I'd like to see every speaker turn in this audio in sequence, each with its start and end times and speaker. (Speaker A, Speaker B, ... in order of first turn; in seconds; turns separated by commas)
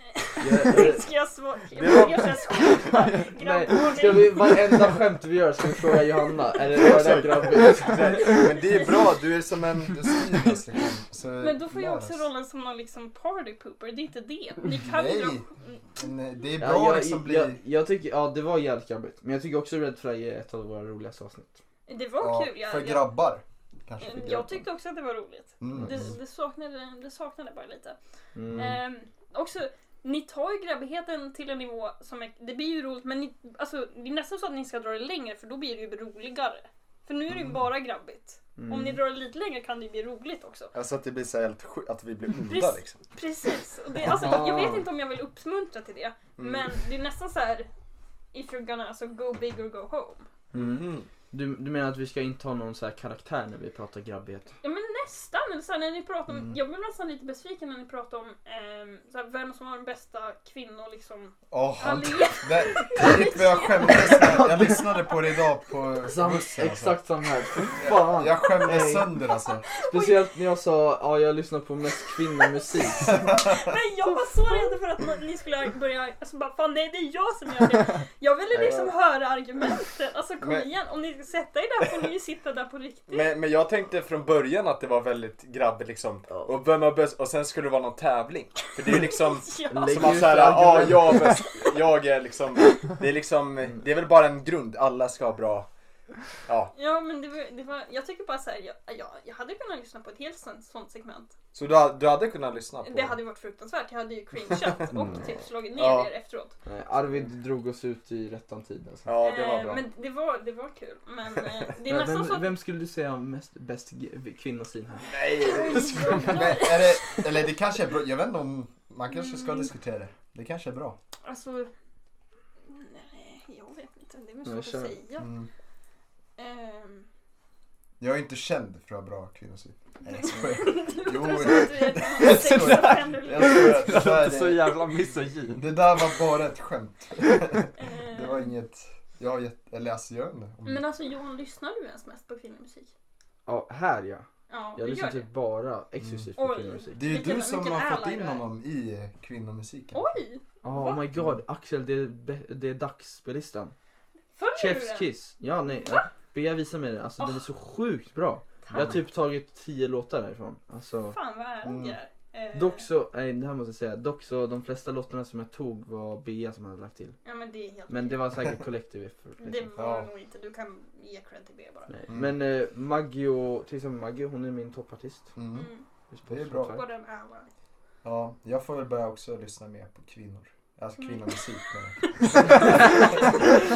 Speaker A: 0.1-4.8, Speaker B: 0.4-1.1, Speaker C: 1.8-2.8, Speaker B: 3.2-8.4, Speaker C: 6.7-12.2, Speaker A: 8.3-9.1, Speaker A: 11.4-16.0, Speaker C: 14.7-15.4, Speaker C: 16.0-17.6, Speaker B: 16.6-21.6, Speaker A: 21.9-23.1, Speaker C: 22.2-24.6, Speaker A: 24.0-28.0, Speaker C: 25.6-26.1, Speaker B: 25.7-26.1, Speaker B: 28.4-28.8, Speaker A: 28.6-40.7, Speaker C: 37.3-37.6, Speaker B: 38.6-39.0, Speaker C: 40.7-43.0, Speaker A: 42.5-47.7, Speaker C: 44.1-44.5, Speaker B: 44.2-44.8, Speaker C: 46.4-46.7, Speaker A: 48.3-50.3, Speaker C: 50.5-51.1, Speaker B: 50.5-54.5, Speaker A: 54.6-64.5, Speaker C: 61.5-67.0, Speaker B: 64.3-64.8, Speaker B: 66.1-69.1, Speaker C: 67.8-69.7, Speaker A: 69.6-70.2, Speaker B: 69.8-73.3, Speaker A: 73.1-83.3, Speaker B: 78.5-78.9, Speaker C: 80.4-80.7, Speaker C: 83.1-95.7, Speaker A: 89.0-90.3, Speaker B: 89.7-91.3, Speaker C: 96.5-96.7, Speaker A: 96.8-101.3, Speaker C: 101.5-103.2, Speaker A: 102.8-106.6, Speaker C: 105.8-106.1, Speaker B: 106.7-109.2, Speaker C: 109.1-109.8, Speaker A: 109.2-112.5, Speaker B: 111.9-115.1, Speaker C: 115.0-121.0, Speaker A: 115.4-117.2, Speaker B: 115.7-117.2, Speaker A: 119.1-119.7, Speaker A: 121.2-121.7, Speaker A: 122.7-125.3, Speaker B: 124.5-125.0, Speaker C: 125.2-125.5, Speaker A: 126.4-127.1, Speaker C: 128.0-134.8, Speaker A: 130.1-134.0, Speaker D: 132.2-135.8, Speaker C: 135.6-140.8, Speaker A: 137.8-138.5, Speaker A: 140.7-142.9, Speaker B: 143.5-146.9, Speaker A: 144.5-145.3, Speaker A: 146.4-148.5, Speaker C: 146.9-150.1, Speaker A: 149.9-151.1, Speaker B: 150.6-153.8, Speaker A: 154.3-155.1, Speaker B: 154.5-161.2, Speaker A: 158.7-159.0, Speaker A: 161.1-162.8, Speaker C: 161.6-162.0, Speaker B: 162.5-167.2, Speaker A: 167.2-168.4, Speaker B: 167.9-169.7, Speaker A: 169.4-171.9, Speaker C: 169.8-170.1, Speaker B: 171.9-175.3, Speaker C: 172.1-172.3, Speaker C: 175.4-175.7, Speaker A: 175.5-175.8, Speaker B: 176.1-176.8, Speaker C: 176.3-176.8, Speaker A: 176.6-177.5, Speaker C: 178.0-183.4, Speaker A: 181.0-181.3, Speaker A: 182.0-183.5